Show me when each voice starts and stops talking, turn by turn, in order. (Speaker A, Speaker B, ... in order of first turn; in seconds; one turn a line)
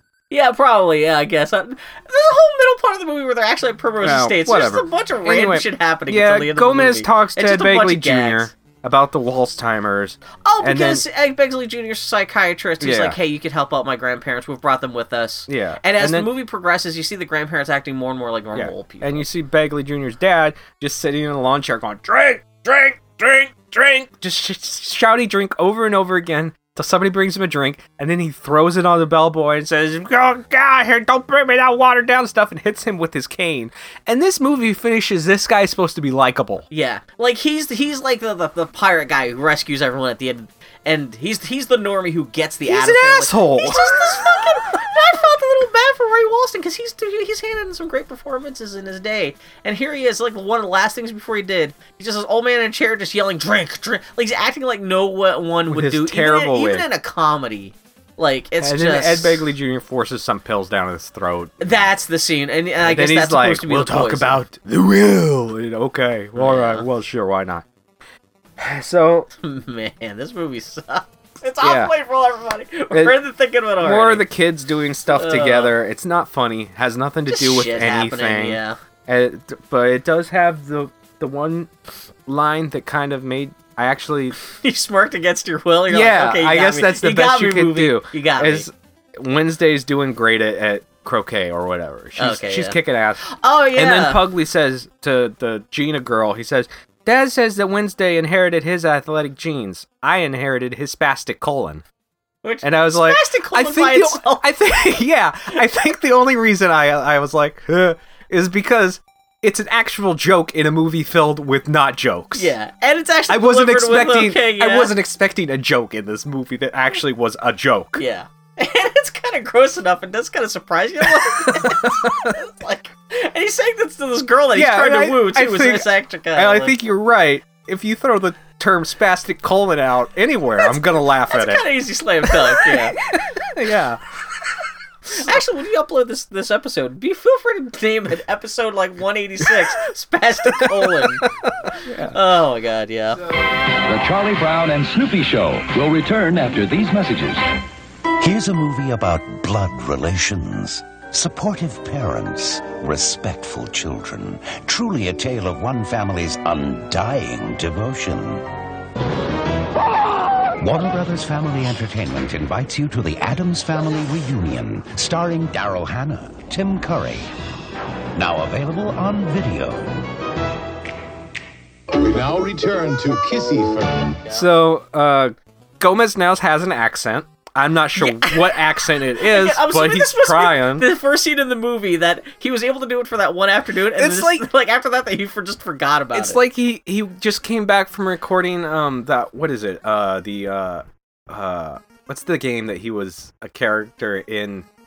Speaker A: 0.3-8.5
Speaker B: 4.0-11.0
Speaker A: 10.4-19.2
Speaker B: 12.8-13.2
Speaker B: 15.5-16.3
Speaker B: 18.6-36.6
Speaker A: 36.7-59.5
Speaker B: 42.6-44.4
Speaker B: 55.7-56.9
Speaker B: 58.6-61.9
Speaker A: 61.6-64.4
Speaker B: 62.8-67.7
Speaker A: 66.3-66.8
Speaker B: 68.6-69.3
Speaker A: 69.3-74.2
Speaker B: 71.6-71.9
Speaker B: 72.9-73.2
Speaker B: 73.8-81.7
Speaker A: 75.1-75.7
Speaker A: 77.3-78.8
Speaker B: 82.2-84.3
Speaker A: 84.5-88.7
Speaker B: 85.9-93.2
Speaker A: 92.2-94.2
Speaker B: 93.8-101.8
Speaker A: 102.4-104.5
Speaker B: 102.6-112.5
Speaker A: 112.3-114.9
Speaker B: 113.3-118.0
Speaker A: 118.0-126.7
Speaker B: 121.1-122.3
Speaker B: 124.5-131.6
Speaker A: 130.6-133.0
Speaker B: 132.2-134.0
Speaker A: 135.1-141.3
Speaker B: 140.5-142.2
Speaker A: 142.0-143.2
Speaker C: 143.8-147.4
Speaker D: 148.2-158.5
Speaker D: 160.6-167.3
Speaker D: 168.1-170.0
Speaker E: 172.0-174.0
Speaker B: 174.3-180.9
Speaker A: 178.0-178.6
Speaker A: 179.1-186.4
Speaker B: 183.9-184.5
Speaker B: 186.1-194.7